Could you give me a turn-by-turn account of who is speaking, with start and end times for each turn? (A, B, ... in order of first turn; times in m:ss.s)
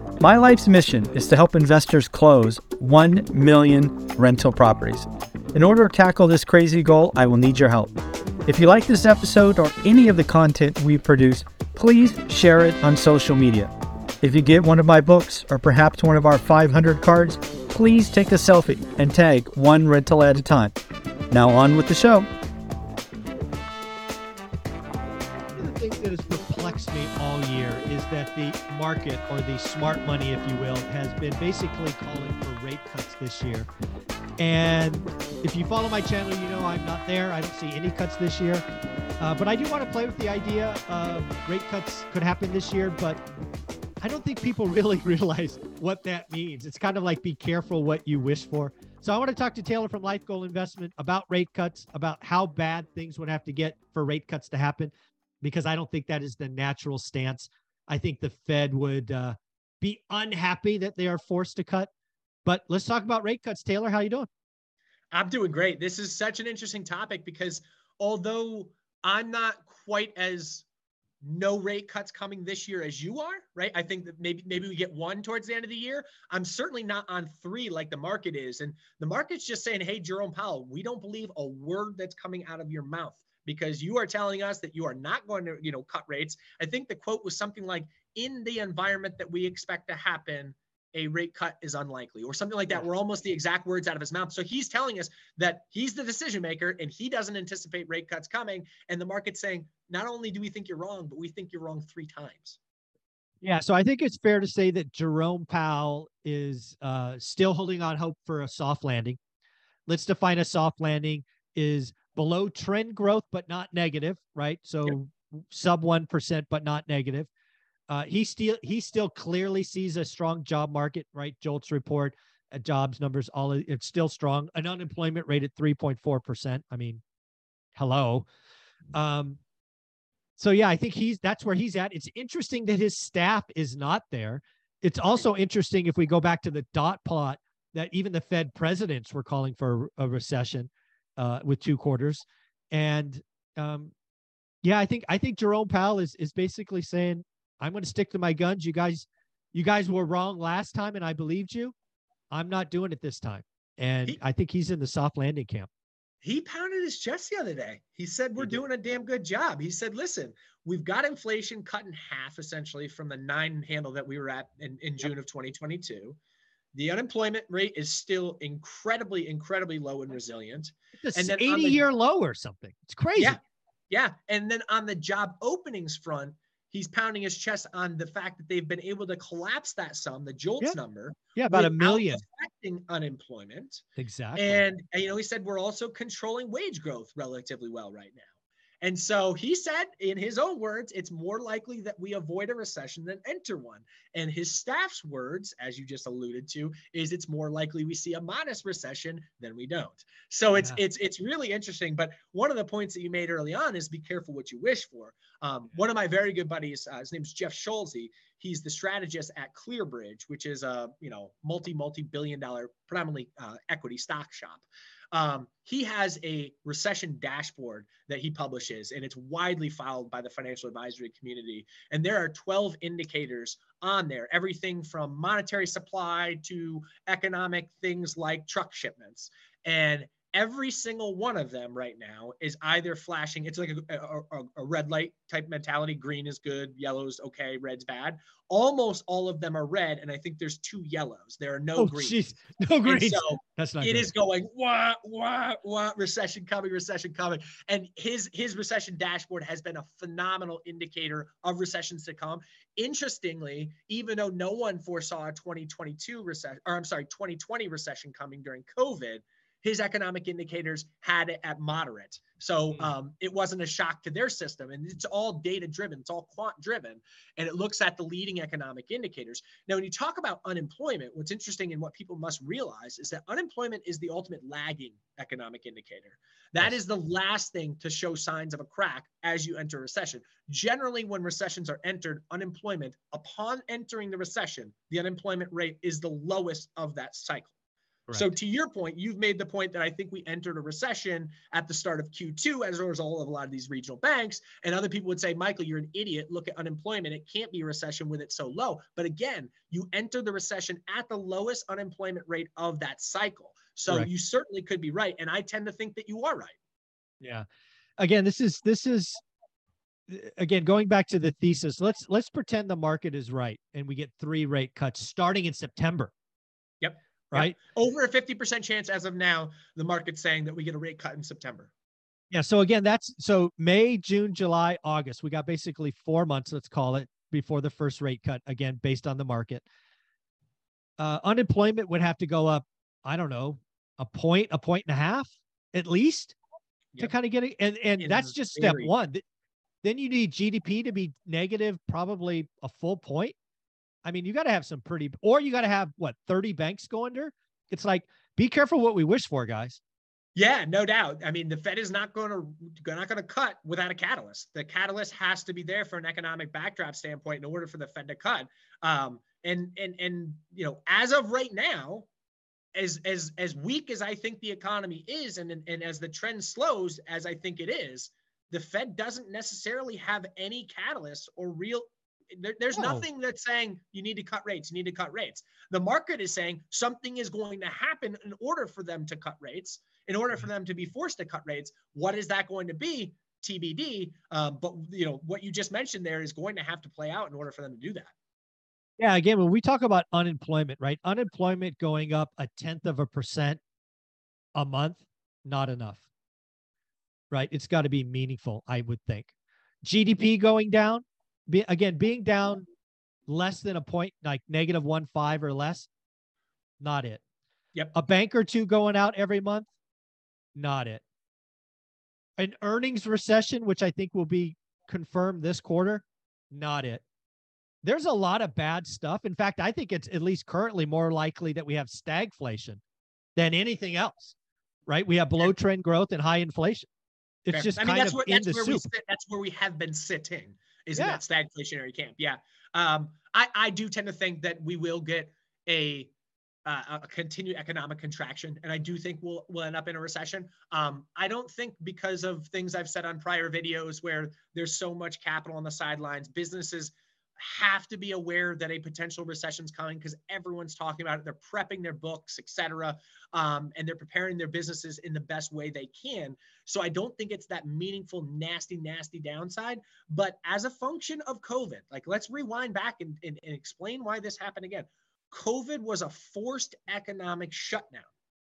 0:00.2-0:08.0 A
0:08.5-0:20.7 A
0:21.3-0:22.3 A
0:25.6-0:33.7 B
0:34.4-0:38.6 B
0:39.2-0:43.2 B
0:44.0-1:01.9 B
1:02.4-1:04.3 B
1:05.1-1:10.7 C
1:11.2-1:42.6 C
1:43.4-1:49.2 B
1:49.9-1:57.3 B
1:57.9-2:07.0 B
2:07.8-2:08.3 B
2:08.9-2:09.4 B
2:10.4-2:23.9 B
2:24.6-2:31.7 B
2:32.3-2:35.7 B
2:36.2-2:46.2 C
2:46.7-2:51.9 C
2:51.0-2:53.4 B
2:53.9-3:03.8 C
3:01.4-3:02.2 B
3:04.0-3:04.6 B
3:04.4-3:08.3 C
3:08.8-4:02.2 C
3:20.6-3:20.8 B
4:01.8-4:04.1 B
4:02.8-4:47.5 C
4:48.1-5:06.6 C
5:08.0-5:09.2 B
5:10.1-5:16.1 B
5:16.8-5:21.7 C
5:22.3-5:29.6 B
5:31.0-5:36.4 B
5:37.0-5:39.2 B
5:38.0-5:38.9 C
5:39.8-5:43.4 B
5:44.0-5:49.8 B
5:50.4-6:02.1 C
6:02.8-6:28.1 C
6:12.7-6:13.0 B
6:29.0-6:33.6 B
6:34.6-6:36.0 B
6:37.3-6:39.3 B
6:39.8-6:42.7 B
6:43.3-6:45.9 B
6:46.8-6:47.2 B
6:48.0-6:49.7 B
6:50.6-6:51.0 B
6:52.4-6:57.0 B
6:57.8-7:02.8 B
7:03.4-7:04.3 B
7:04.9-7:06.9 B
7:07.4-7:08.8 B
7:07.5-7:16.1 C
7:11.0-7:11.2 B
7:16.7-7:48.1 C